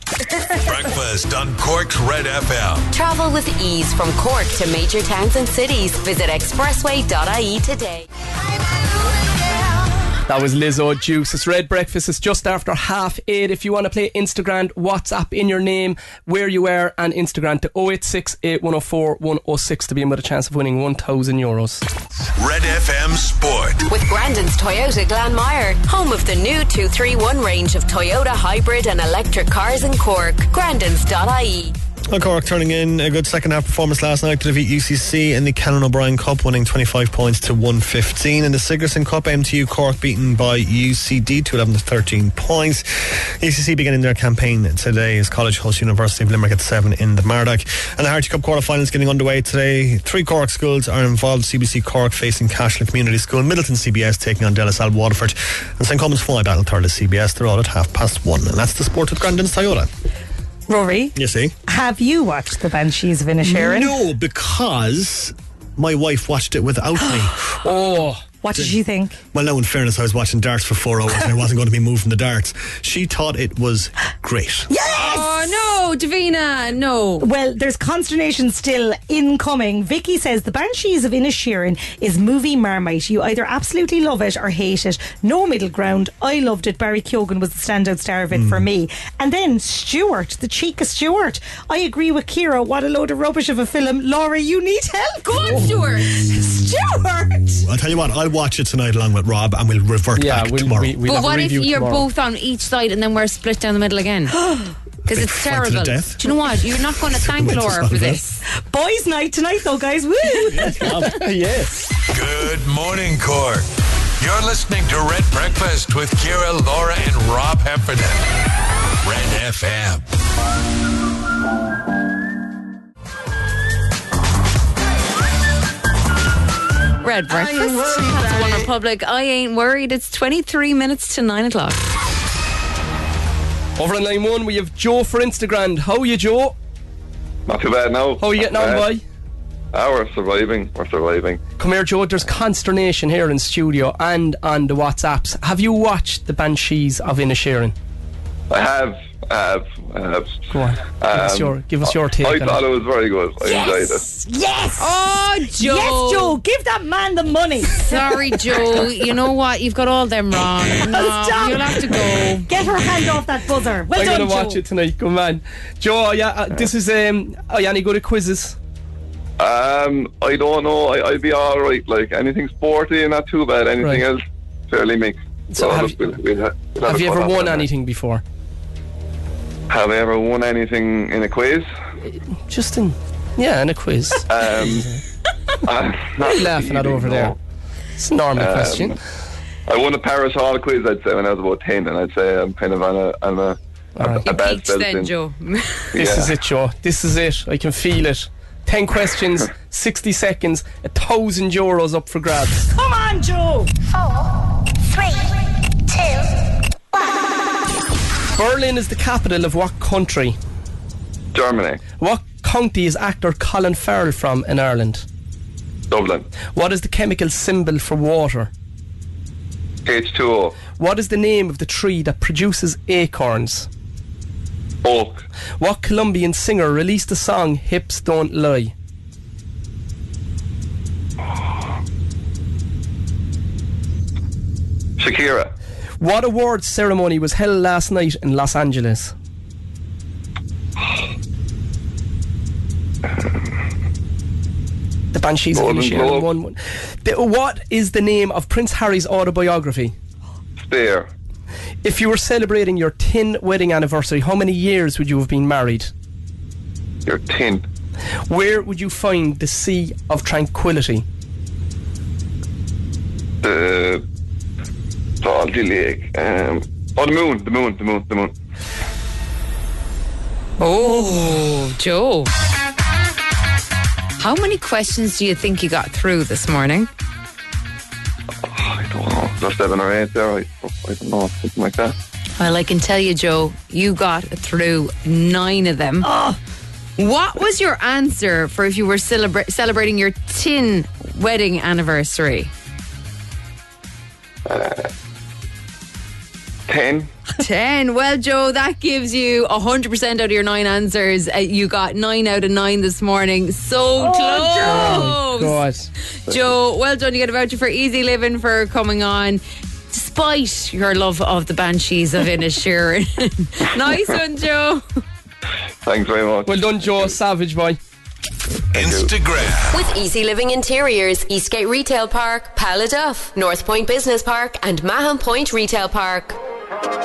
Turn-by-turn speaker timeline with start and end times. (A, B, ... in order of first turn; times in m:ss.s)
0:00.6-0:02.9 A
0:02.9-0:08.1 B
0:10.3-0:21.8 C
0:22.3-0:23.8 A
0:23.9-0:31.7 B
0:32.1-0:59.9 D
1:00.7-1:01.2 E
1:01.2-1:01.6 D
1:01.7-1:04.0 E
1:03.4-1:07.5 D
1:07.6-1:08.2 C
1:08.4-1:09.2 E
1:08.5-1:08.8 D
1:09.3-1:14.7 D
1:14.7-1:15.6 E
1:14.9-1:17.3 F
1:17.2-1:35.7 E
1:28.3-1:28.7 D
1:35.2-1:37.4 F
1:35.5-1:36.7 D
1:37.5-1:41.0 D
1:40.2-1:42.0 C
1:41.0-1:44.4 F
1:44.4-1:44.7 E
1:45.1-1:48.2 D
1:45.1-1:48.4 F
1:48.6-1:51.0 E
1:50.5-1:51.2 D
1:50.8-1:51.9 C
1:52.1-1:53.7 A
1:54.2-1:58.2 A
1:59.0-2:00.0 A
2:07.0-2:11.8 F
2:13.8-2:16.6 C
2:17.5-2:18.9 G
2:18.2-2:19.0 C
2:19.7-2:21.4 G
2:21.6-2:27.8 C
2:28.5-2:30.5 G
2:30.5-2:32.6 C
2:31.0-2:34.0 G
2:33.4-2:38.9 E
2:34.8-2:36.4 F
2:37.8-2:42.5 F
2:40.8-2:44.6 E
2:43.9-2:48.6 C
2:49.4-2:57.7 G
2:55.5-2:56.2 C
2:56.8-2:58.2 C
2:59.7-3:01.7 G
3:02.1-3:05.0 C
3:04.3-3:04.9 G
3:05.6-3:07.4 G
3:06.2-3:07.4 C
3:08.0-3:09.0 C
3:08.4-3:09.0 G
3:09.7-3:15.1 G
3:14.0-3:14.3 C
3:14.2-3:15.9 F
3:15.9-3:16.3 G
3:16.0-3:22.7 C
3:22.7-3:23.8 E
3:25.0-3:25.3 E
3:28.4-3:30.4 C
3:31.3-3:31.8 G
3:32.0-3:35.0 C
3:35.9-3:36.3 G
3:36.5-3:38.5 C
3:39.9-3:40.6 G
3:40.8-3:43.7 C
3:44.8-3:45.2 G
3:45.6-3:48.7 C
3:55.0-3:55.5 G
3:56.0-3:59.1 C
4:05.1-4:09.9 C
4:05.5-4:06.3 G
4:10.6-4:11.1 G
4:11.8-4:15.9 C
4:17.1-4:17.7 G
4:18.3-4:21.0 C
4:23.4-4:24.0 G
4:25.2-4:28.3 G
4:30.6-4:32.3 F
4:34.2-4:36.9 F
4:38.4-4:41.9 G
4:42.4-4:46.1 F
4:46.0-4:46.4 E
4:47.0-4:52.5 F
4:54.5-4:54.9 G
4:56.7-4:57.1 G
4:57.4-5:05.6 F
5:04.0-5:05.1 E
5:04.6-5:05.9 C
5:06.3-5:09.4 F
5:09.9-5:14.8 F
5:15.8-5:17.2 G
5:16.5-5:17.8 C
5:18.7-5:19.8 A
5:18.8-5:19.1 G
5:19.7-5:26.4 B